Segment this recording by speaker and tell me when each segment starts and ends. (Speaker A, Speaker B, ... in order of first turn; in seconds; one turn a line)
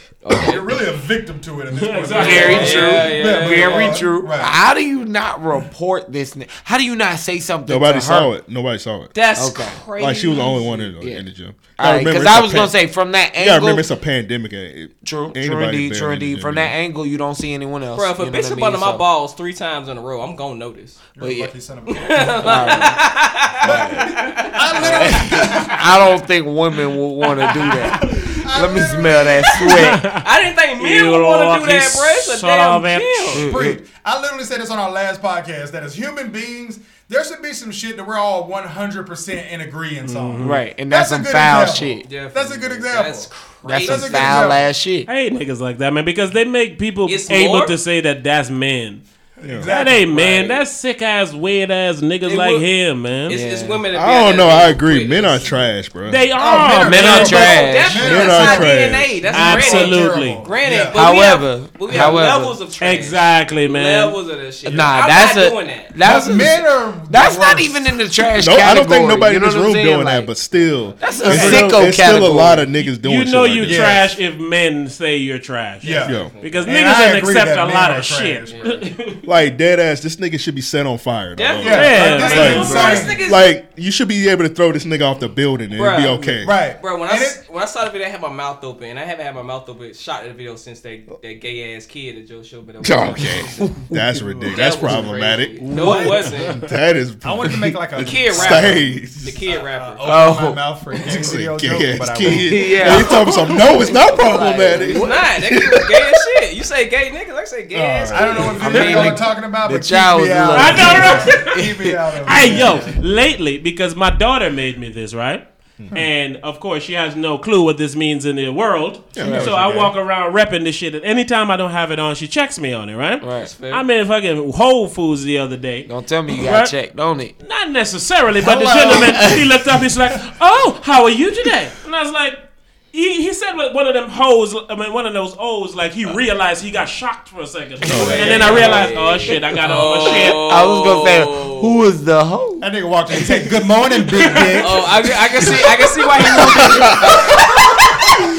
Speaker A: 0.2-0.6
Speaker B: 0.3-4.5
Speaker C: 1.7-2.9
Speaker A: 2.1-4.0
Speaker D: 2.1-8.3
Speaker E: 7.7-9.1
Speaker A: 9.1-10.9
Speaker D: 9.4-9.8
Speaker E: 10.0-12.8
Speaker D: 11.8-13.8
Speaker E: 13.3-16.7
Speaker D: 15.0-19.0
Speaker A: 17.9-21.0
Speaker B: 21.1-23.0
Speaker D: 21.2-21.5
Speaker A: 21.9-25.2
Speaker D: 22.4-23.0
Speaker B: 23.6-26.0
Speaker D: 23.7-23.9
Speaker D: 24.8-30.0
Speaker B: 27.8-29.7
Speaker C: 29.7-33.4
Speaker A: 30.2-33.4
Speaker D: 33.3-33.8
Speaker B: 33.4-44.7
Speaker C: 40.0-40.6
Speaker D: 40.4-42.0
Speaker A: 42.0-44.6
Speaker D: 43.6-45.1
Speaker C: 45.1-49.0
Speaker A: 47.0-47.8
Speaker B: 49.4-50.5
Speaker E: 49.4-49.7
Speaker C: 49.6-53.4
Speaker A: 50.2-50.5
Speaker A: 52.2-52.7
Speaker A: 53.3-55.6
Speaker D: 53.3-53.8
Speaker E: 53.9-56.2
Speaker C: 56.0-57.6
Speaker B: 56.3-61.0
Speaker D: 56.7-58.0
Speaker A: 57.4-65.9
Speaker E: 58.0-59.2
Speaker C: 59.3-60.5
Speaker D: 60.9-62.5
Speaker B: 61.9-62.2
Speaker C: 62.8-64.2
Speaker D: 64.7-70.3
Speaker B: 64.7-64.9
Speaker B: 66.0-68.0
Speaker E: 68.4-73.9
Speaker D: 71.0-72.7
Speaker B: 71.2-71.8
Speaker C: 72.8-79.2
Speaker B: 73.6-74.1
Speaker B: 75.8-78.9
Speaker A: 75.8-76.7
Speaker E: 76.1-76.3
Speaker A: 78.5-78.8
Speaker E: 79.2-86.6
Speaker A: 81.3-83.5
Speaker B: 81.6-83.2
Speaker C: 81.7-83.1
Speaker A: 85.7-93.7
Speaker B: 86.4-87.4
Speaker E: 92.8-95.7
Speaker B: 94.2-95.0
Speaker A: 94.5-96.5
Speaker D: 95.6-96.2
Speaker B: 95.7-96.1
Speaker C: 96.0-96.7
Speaker E: 96.5-99.3
Speaker B: 97.2-103.3
Speaker A: 98.0-100.0
Speaker D: 100.0-100.6
Speaker E: 101.0-106.2
Speaker D: 102.2-105.1
Speaker A: 104.9-109.0
Speaker E: 107.7-108.6
Speaker B: 108.1-113.0
Speaker D: 108.6-112.9
Speaker C: 108.7-109.2
Speaker C: 110.5-126.7
Speaker E: 119.1-119.8
Speaker B: 119.2-119.9
Speaker D: 119.2-119.5
Speaker D: 123.2-123.5
Speaker A: 123.3-123.8
Speaker D: 125.8-127.3
Speaker C: 127.4-132.4
Speaker B: 128.4-129.5
Speaker D: 128.4-129.4
Speaker C: 132.9-140.4
Speaker E: 137.8-138.4
Speaker A: 137.9-141.8
Speaker D: 138.4-138.7
Speaker D: 140.4-142.7
Speaker B: 142.6-146.7
Speaker C: 144.1-144.8
Speaker A: 144.6-148.0